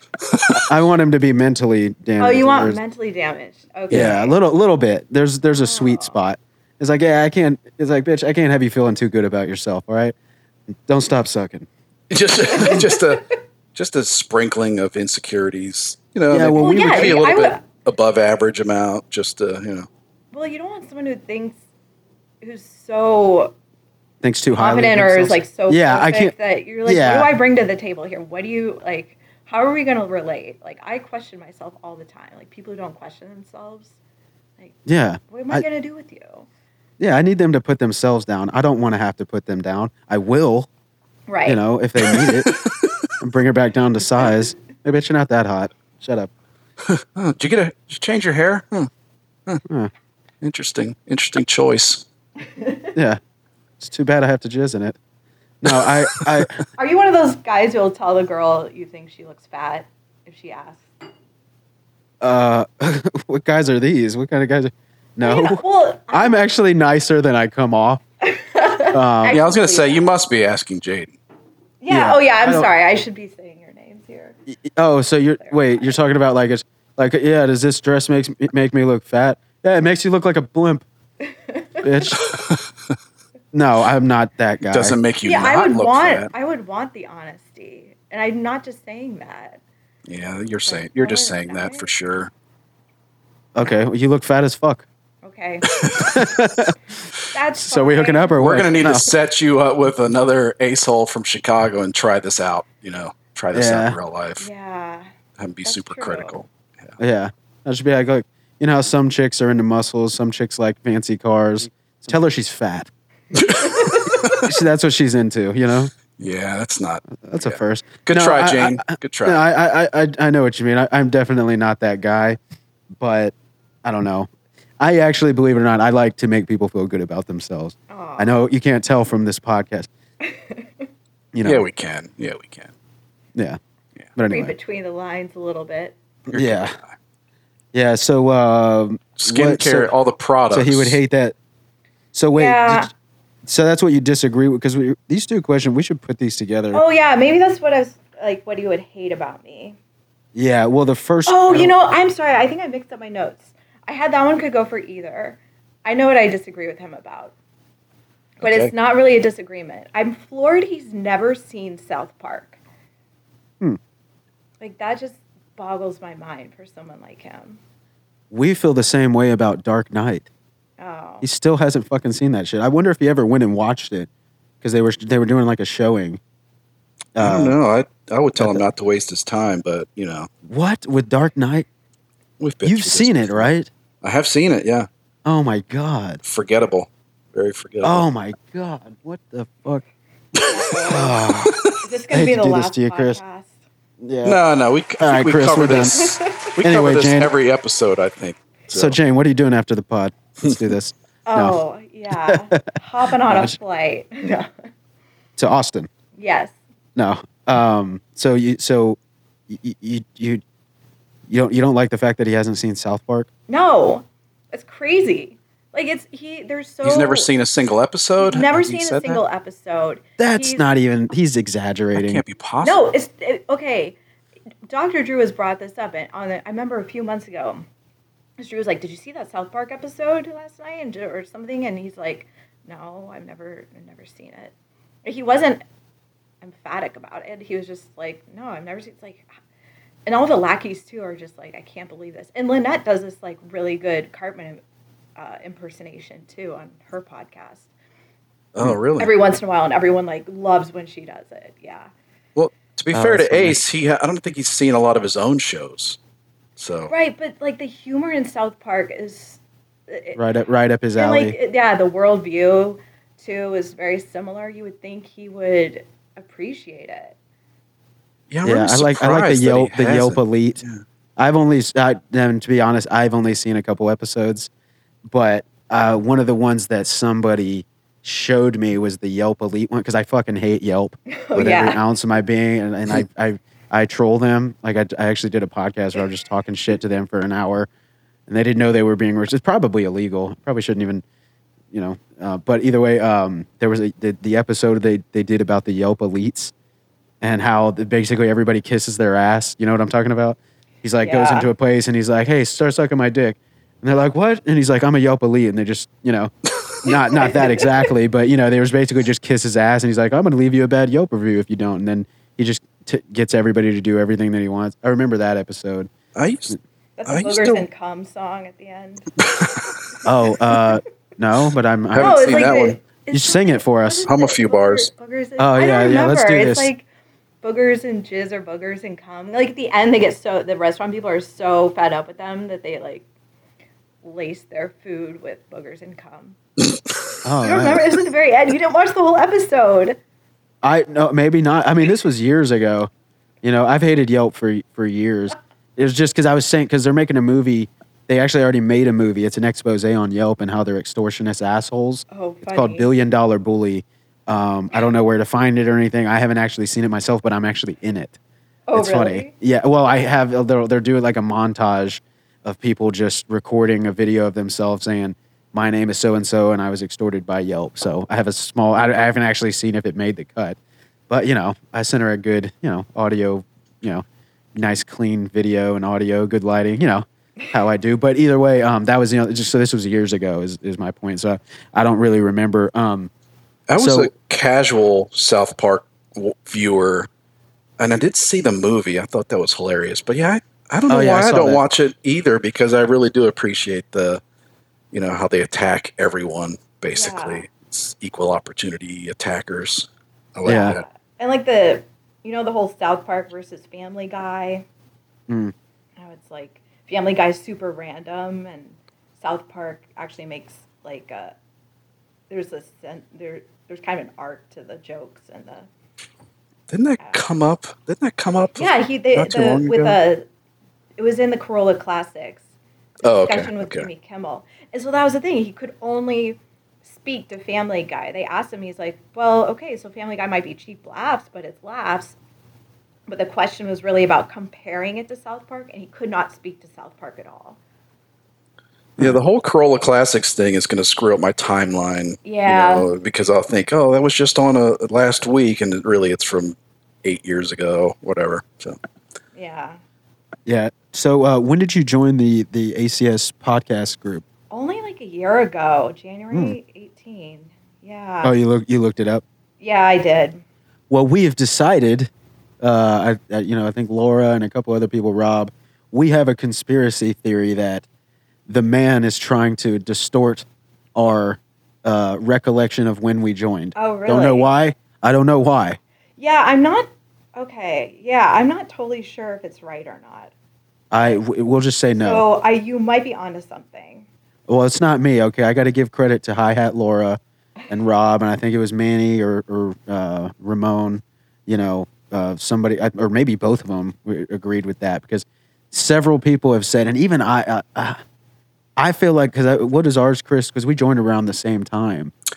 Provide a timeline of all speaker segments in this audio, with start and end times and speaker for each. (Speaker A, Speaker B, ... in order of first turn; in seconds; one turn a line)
Speaker A: 0.3-0.6
Speaker B: 0.5-2.8
Speaker C: 2.2-4.4
Speaker B: 3.9-10.2
Speaker C: 5.6-6.2
Speaker B: 10.9-11.7
Speaker A: 12.1-19.9
Speaker C: 12.5-13.2
Speaker B: 16.3-17.2
Speaker C: 16.6-17.6
Speaker C: 20.3-21.6
Speaker C: 22.4-23.6
Speaker B: 24.2-26.3
Speaker C: 24.6-34.0
Speaker B: 26.9-27.3
Speaker B: 34.9-35.6
Speaker C: 35.3-36.5
Speaker B: 37.0-40.7
Speaker C: 41.3-41.6
Speaker B: 41.5-42.5
Speaker A: 42.0-43.0
Speaker B: 43.2-46.3
Speaker A: 46.9-48.9
Speaker B: 49.7-49.9
Speaker A: 50.4-52.0
Speaker C: 52.5-52.9
Speaker B: 53.0-53.2
Speaker B: 53.8-55.0
Speaker B: 55.6-56.6
Speaker A: 55.7-56.5
Speaker C: 56.8-60.9
Speaker B: 62.2-68.0
Speaker C: 65.2-66.4
Speaker C: 68.2-70.1
Speaker B: 68.9-69.4
Speaker A: 69.3-71.2
Speaker C: 71.8-74.4
Speaker B: 71.9-72.7
Speaker B: 74.5-80.8
Speaker C: 75.4-76.0
Speaker C: 81.3-82.1
Speaker B: 81.8-82.2
Speaker A: 82.2-82.6
Speaker B: 83.5-85.0
Speaker A: 84.7-86.3
Speaker C: 85.2-89.6
Speaker A: 90.1-92.3
Speaker C: 90.7-91.9
Speaker B: 93.5-94.9
Speaker C: 95.2-95.7
Speaker A: 95.7-96.2
Speaker B: 96.0-96.8
Speaker C: 97.3-98.8
Speaker B: 97.6-99.1
Speaker A: 98.4-104.5
Speaker B: 103.5-104.0
Speaker C: 104.4-105.1
Speaker A: 105.4-107.0
Speaker C: 105.7-106.4
Speaker B: 107.0-112.9
Speaker A: 113.3-114.4
Speaker C: 113.6-114.4
Speaker B: 114.4-115.9
Speaker A: 116.1-119.4
Speaker B: 117.2-122.4
Speaker B: 123.0-129.9
Speaker C: 127.9-128.5
Speaker C: 130.2-130.7
Speaker B: 131.3-131.7
Speaker A: 131.4-132.7
Speaker B: 134.2-134.6
Speaker C: 134.3-136.0
Speaker B: 136.3-136.8
Speaker A: 136.3-136.8
Speaker B: 137.7-139.9
Speaker A: 139.2-141.0
Speaker B: 140.5-141.3
Speaker B: 142.1-142.9
Speaker C: 142.3-142.9
Speaker B: 143.4-146.8
Speaker C: 146.7-149.8
Speaker B: 150.3-151.7
Speaker C: 151.3-157.3
Speaker C: 158.4-162.6
Speaker A: 158.4-158.7
Speaker C: 164.6-167.6
Speaker B: 168.3-170.3
Speaker C: 170.8-171.3
Speaker B: 171.2-174.1
Speaker B: 174.6-176.2
Speaker B: 177.2-177.6
Speaker A: 177.2-180.3
Speaker B: 178.4-178.6
Speaker B: 180.5-181.7
Speaker A: 182.4-183.5
Speaker B: 182.6-183.7
Speaker A: 184.0-184.9
Speaker B: 185.2-186.2
Speaker A: 186.2-188.1
Speaker B: 187.8-189.8
Speaker A: 190.4-191.8
Speaker C: 190.5-191.2
Speaker B: 190.9-193.2
Speaker C: 191.8-193.6
Speaker B: 194.0-194.4
Speaker A: 194.2-199.0
Speaker B: 195.0-197.3
Speaker C: 196.0-196.5
Speaker B: 198.7-201.6
Speaker C: 201.3-204.5
Speaker B: 202.1-202.7
Speaker B: 203.2-203.6
Speaker B: 205.4-205.9
Speaker C: 206.2-206.5
Speaker B: 207.0-209.0
Speaker B: 209.5-210.4
Speaker B: 211.3-213.3
Speaker C: 213.5-217.3
Speaker A: 216.8-219.2
Speaker C: 218.2-220.7
Speaker B: 220.2-222.2
Speaker A: 221.9-222.8
Speaker C: 222.6-224.0
Speaker C: 224.7-227.7
Speaker C: 228.4-234.5
Speaker C: 235.1-235.6
Speaker C: 236.4-239.3
Speaker C: 240.1-244.6
Speaker C: 245.2-247.7
Speaker A: 248.6-249.1
Speaker C: 249.0-251.9
Speaker A: 252.4-256.0
Speaker B: 252.9-253.6
Speaker A: 256.6-256.9
Speaker C: 256.9-260.2
Speaker B: 260.2-261.4
Speaker C: 261.0-267.2
Speaker A: 268.3-270.8
Speaker B: 268.4-270.6
Speaker B: 271.2-274.5
Speaker B: 275.1-287.7
Speaker C: 281.1-281.8
Speaker B: 288.3-291.0
Speaker B: 291.7-296.5
Speaker B: 297.2-306.3
Speaker C: 301.0-301.5
Speaker B: 306.8-315.9
Speaker C: 307.2-307.8
Speaker A: 316.1-316.6
Speaker C: 317.0-319.1
Speaker A: 317.1-317.6
Speaker A: 319.2-319.7
Speaker B: 320.1-324.1
Speaker A: 321.9-322.8
Speaker C: 322.0-326.9
Speaker A: 324.1-324.9
Speaker B: 325.4-326.7
Speaker C: 327.4-333.1
Speaker C: 334.0-336.4
Speaker B: 337.2-337.9
Speaker C: 337.4-340.0
Speaker B: 340.6-342.9
Speaker B: 343.4-358.2
Speaker C: 352.1-352.9
Speaker C: 358.7-359.3
Speaker B: 358.8-370.6
Speaker B: 371.1-374.0
Speaker B: 374.6-383.1
Speaker A: 383.7-387.1
Speaker B: 383.8-384.1
Speaker A: 387.8-394.2
Speaker B: 390.9-391.6
Speaker A: 394.9-400.8
Speaker C: 396.9-397.4
Speaker B: 400.5-400.8
Speaker C: 400.5-404.6
Speaker B: 405.3-405.5
Speaker C: 406.0-411.4
Speaker C: 412.3-415.7
Speaker A: 416.7-420.0
Speaker C: 418.6-420.3
Speaker C: 421.0-422.5
Speaker A: 423.0-423.9
Speaker C: 423.1-432.2
Speaker C: 433.1-437.6
Speaker A: 439.0-448.8
Speaker C: 442.2-442.9
Speaker C: 449.4-449.8
Speaker B: 450.5-454.2
Speaker C: 454.5-458.4
Speaker B: 456.3-456.6
Speaker B: 458.2-459.2
Speaker C: 459.6-460.4
Speaker B: 460.9-462.1
Speaker B: 462.6-467.9
Speaker B: 468.5-475.8
Speaker C: 473.8-474.5
Speaker C: 476.2-480.3
Speaker B: 480.9-482.2
Speaker C: 482.0-484.1
Speaker B: 484.5-498.0
Speaker B: 498.8-502.1